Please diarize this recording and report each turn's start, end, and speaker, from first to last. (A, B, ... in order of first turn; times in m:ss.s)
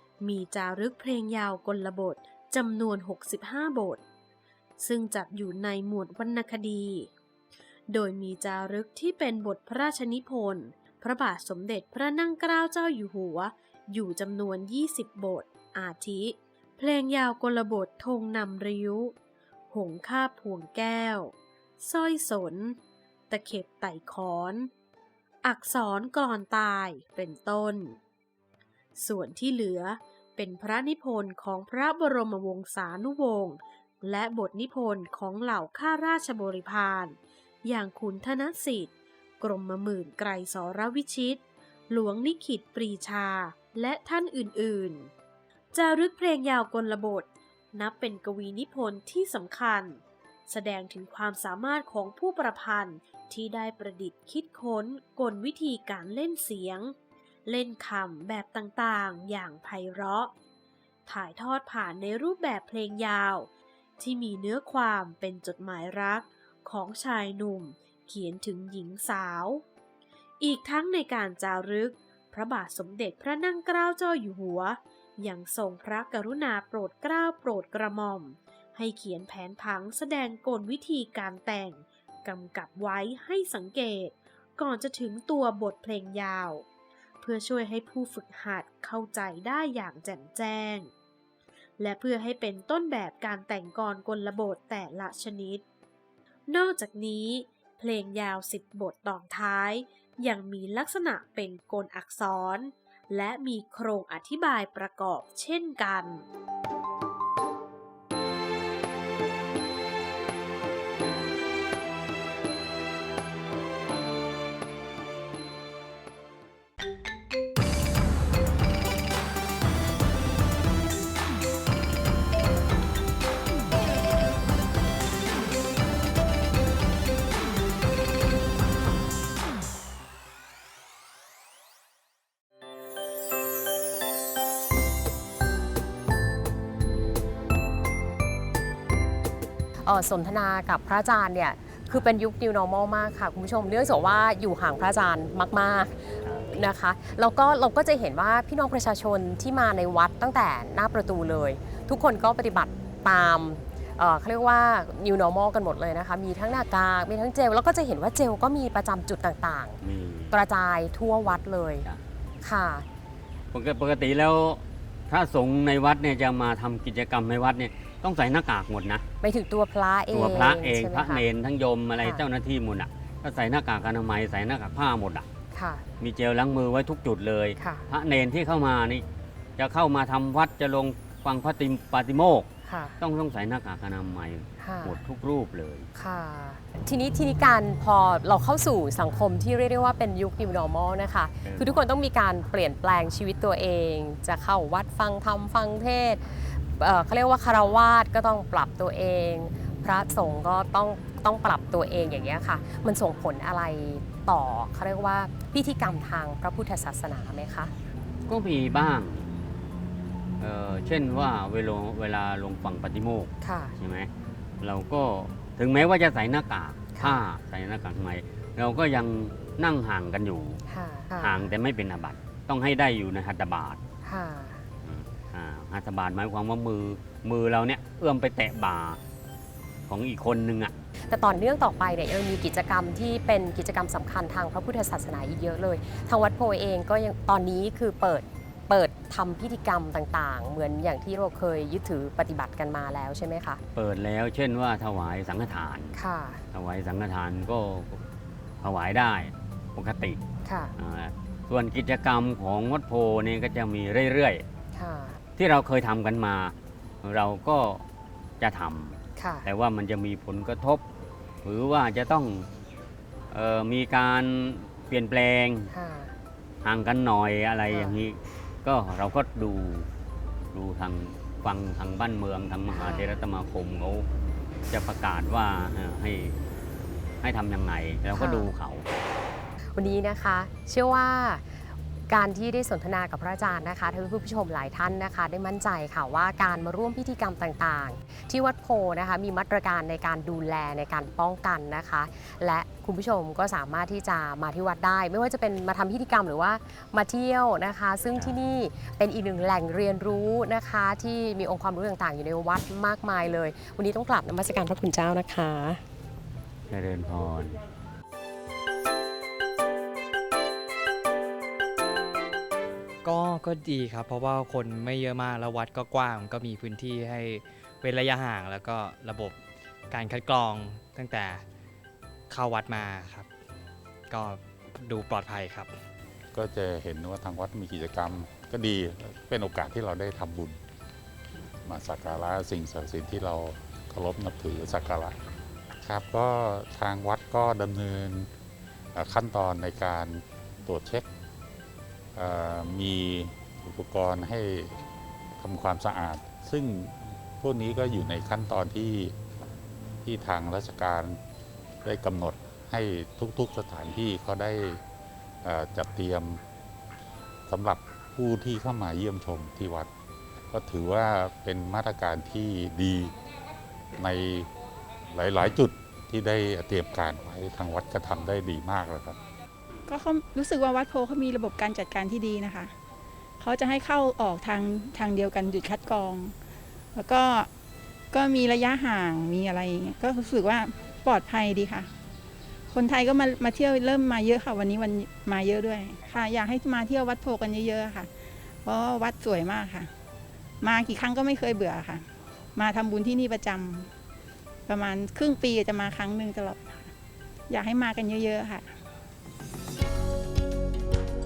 0:00.2-0:04.0 A
0:04.8-0:07.1 A
0:07.9-0:19.1 A
0:19.7-0:22.8 A
0:23.3-0:24.7 A
0:25.4-0:28.0 A
0:29.0-0:45.1 A
0:45.7-0:56.9 A
0:57.4-1:00.3 A
1:01.0-1:09.6 A
1:10.4-1:26.6 A
1:27.2-1:30.9 A
1:31.8-1:35.6 A
1:36.5-1:46.2 A
2:19.8-2:39.8 B
2:26.2-2:26.6 C
2:39.8-2:40.3 C
2:40.3-2:41.9 B
2:42.4-2:42.8 B
2:43.5-2:49.0 C
2:49.2-2:51.2 B
2:50.1-2:55.3 C
2:55.5-2:55.8 B
2:56.0-2:59.0 C
2:57.6-2:57.8 B
2:59.6-3:05.9 C
3:02.6-3:03.0 B
3:04.6-3:05.0 B
3:06.0-3:27.7 B
3:11.4-3:11.8 C
3:28.3-3:29.3 C
3:30.4-3:40.6 C
3:33.4-3:33.8 B
3:37.0-3:37.2 B
3:40.7-3:41.5 B
3:41.2-3:43.8 C
3:44.0-3:44.6 B
3:44.8-3:49.0 C
3:49.9-3:50.7 C
3:51.1-4:03.6 B
4:03.7-4:06.0 C
4:05.9-4:06.4 B
4:06.5-4:08.0 C
4:08.6-4:10.2 C
4:10.4-4:10.7 B
4:10.8-4:14.4 C
4:14.7-4:15.2 B
4:15.4-4:17.8 C
4:18.4-4:20.8 C
4:19.2-4:19.5 B
4:21.4-4:22.5 C
4:23.3-4:25.7 C
4:25.7-4:26.1 B
4:26.6-4:29.9 C
4:27.7-4:28.0 B
4:30.5-4:34.1 C
4:32.7-4:33.1 B
4:34.7-4:36.4 C
4:37.2-4:39.0 C
4:38.1-4:38.5 B
4:39.7-5:05.8 B
5:06.7-5:07.6 C
5:13.0-5:19.4 D
5:19.9-5:21.4 D
5:22.3-5:23.3 D
5:24.1-5:25.7 D
5:26.3-5:30.6 E
5:31.6-5:35.2 E
5:35.8-5:38.3 E
5:38.9-5:41.1 E
5:42.1-5:44.8 E
5:45.4-5:49.2 E
5:50.0-5:51.2 E
5:51.8-5:54.8 E
5:55.4-5:56.4 E
5:57.5-5:59.9 E
6:00.5-6:03.1 E
6:04.0-6:04.5 E
6:05.1-6:09.2 E
6:09.9-6:12.7 F
6:13.4-6:16.3 F
6:16.9-6:17.5 F
6:18.1-6:21.9 F
6:22.7-6:28.1 F
6:28.6-6:29.9 F
6:30.6-6:33.9 F
6:34.7-6:36.9 F
6:37.5-6:38.7 F